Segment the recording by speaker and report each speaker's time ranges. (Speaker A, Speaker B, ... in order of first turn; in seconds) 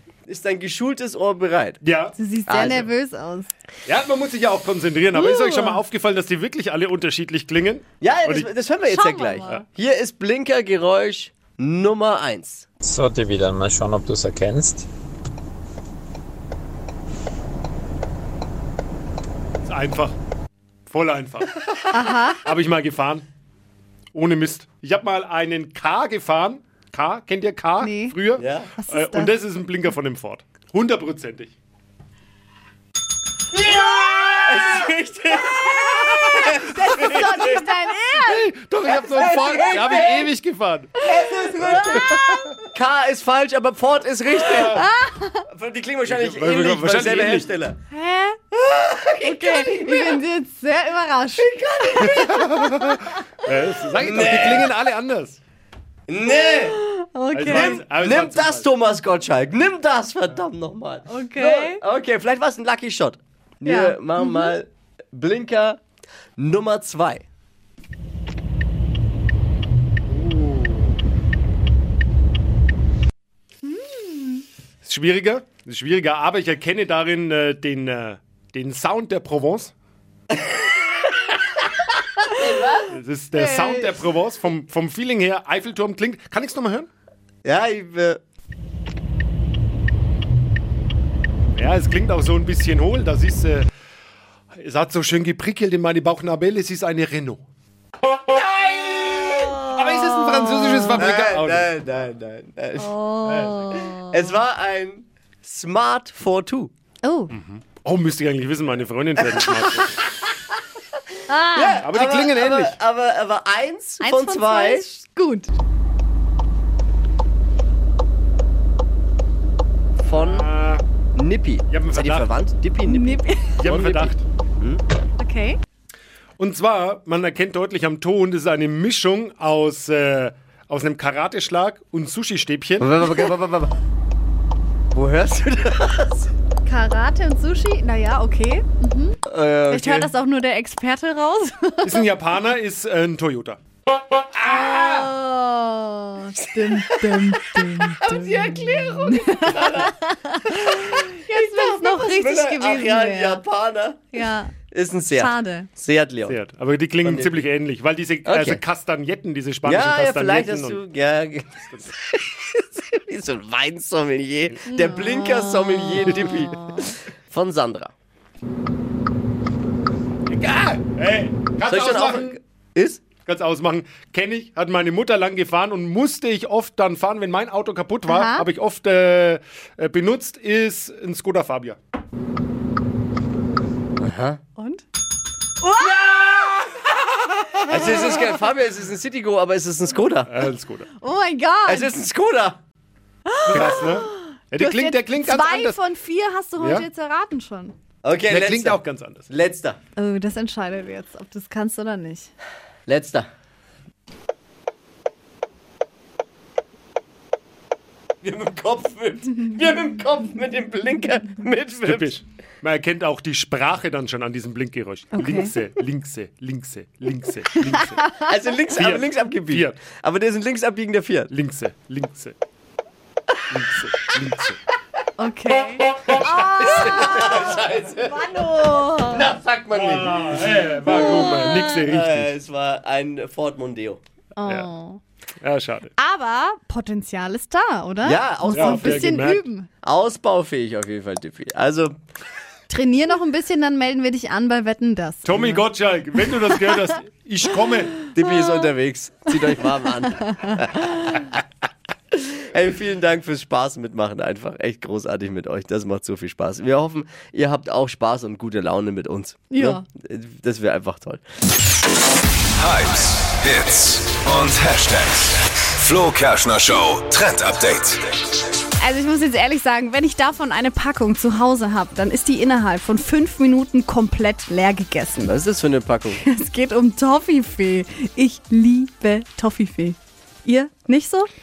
Speaker A: 0.3-1.8, 2.5-2.9, 8.0-12.7, 28.4-28.7, 33.5-37.6, 38.8-40.3, 41.0-44.8, 45.5-47.8, 48.5-50.2, 51.4-52.7, 54.0-54.7, 56.1-56.8, 57.4-65.8, 66.4-67.2, 82.4-82.9, 87.4-88.2, 98.3-99.6, 100.9-102.9, 103.7-106.7, 111.5-114.8, 120.0-120.5, 121.1-124.8, 132.8-133.8, 134.9-136.3, 139.3-140.1, 146.7-147.1, 147.6-154.1, 154.7-156.4, 157.0-157.4, 158.2-158.6, 159.6-167.9, 171.7-173.0, 184.0-184.4, 187.7-190.3, 191.7-192.6, 198.0-199.8, 202.9-203.3, 208.2-212.1, 218.2-221.3, 226.2-234.0, 238.0-242.0, 248.1-251.3, 252.1-261.2, 275.2-276.2
Speaker B: 1.8-2.1, 3.9-8.5, 19.6-20.2, 20.9-21.6, 22.4-23.2, 24.1-31.5, 34.1-34.5, 38.1-41.0, 41.7-42.0, 44.4-44.8, 46.0-47.5, 52.0-55.4, 57.3-58.7, 70.1-70.9, 74.8-79.7, 82.9-86.9, 91.5-93.7, 94.6-97.4, 99.7-101.7, 103.2-103.8, 107.3-110.0, 111.8-112.8, 120.1-120.8, 121.7-122.3, 123.6-124.2, 126.4-133.0, 141.8-143.6, 156.2-160.8, 170.3-172.3, 173.2-181.8, 186.0-186.7, 187.7-188.0, 190.3-190.9, 193.5-195.8, 196.6-196.8, 198.3-199.3, 211.8-218.1, 218.7-219.8, 221.3-222.3, 223.5-224.6, 229.7-232.3, 235.4-235.9, 238.5-239.4, 245.2-248.1
Speaker C: 2.2-3.5, 5.1-5.8, 8.8-9.6, 21.9-22.4, 27.8-28.1, 28.8-29.3, 36.2-38.5, 41.7-42.1, 44.6-45.5, 47.9-48.4, 49.2-52.2, 56.7-57.8, 61.1-61.8, 63.6-64.5, 73.6-74.4, 83.4-83.9, 99.7-101.0, 102.8-104.4, 107.0-107.3, 111.3-111.8, 114.0-115.5, 122.8-123.6, 125.2-125.6, 136.6-139.2, 139.7-142.0, 144.4-153.4, 154.1-154.5, 155.1-155.7, 164.7-166.9, 178.1-178.5, 184.6-184.8, 185.6-185.9, 191.0-191.9, 193.3-197.7, 199.9-202.3, 215.1-215.5, 225.2-229.3, 230.8-231.8, 234.4-235.0, 236.0-239.7, 242.7-245.6, 259.5-259.8, 268.8-275.3, 276.1-281.3
Speaker D: 12.8-14.9
Speaker E: 262.6-268.1